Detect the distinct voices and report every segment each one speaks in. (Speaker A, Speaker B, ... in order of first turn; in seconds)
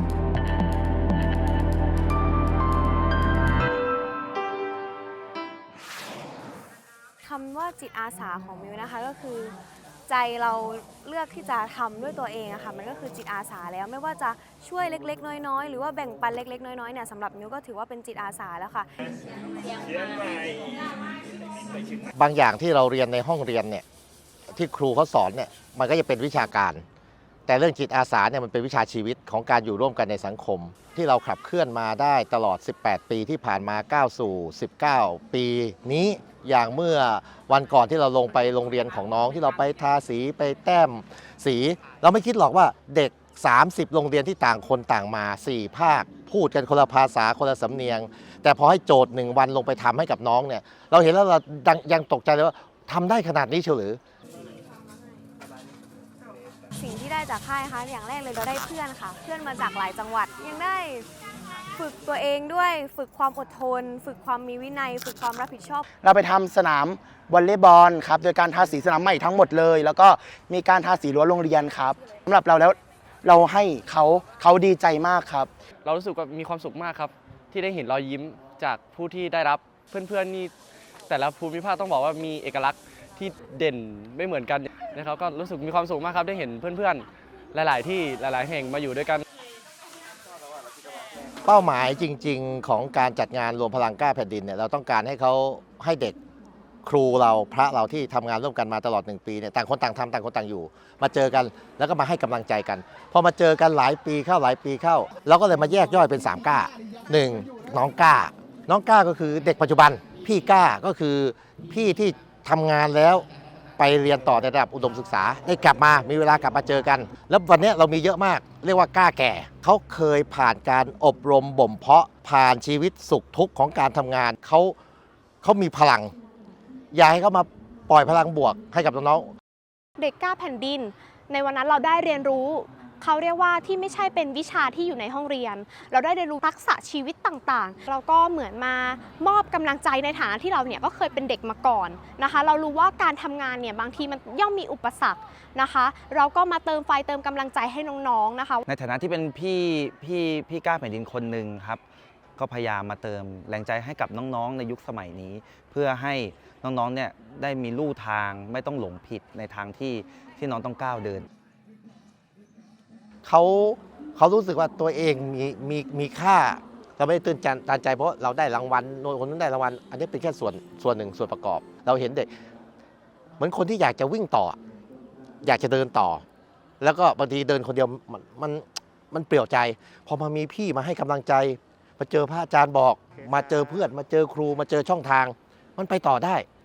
Speaker A: 7.2-9.5, 10.1-18.9, 56.8-61.1, 61.7-65.8
Speaker B: 22.1-23.8, 24.5-26.8, 27.5-54.0, 91.4-96.2, 96.8-113.2, 113.8-124.7, 125.4-126.1, 126.9-129.3, 163.2-172.3, 173.4-174.6, 175.4-176.2, 176.8-186.4
Speaker C: 66.0-75.5
Speaker D: 75.8-80.5, 81.1-89.2
Speaker E: 130.0-148.7
Speaker F: 148.7-151.8, 152.4-161.2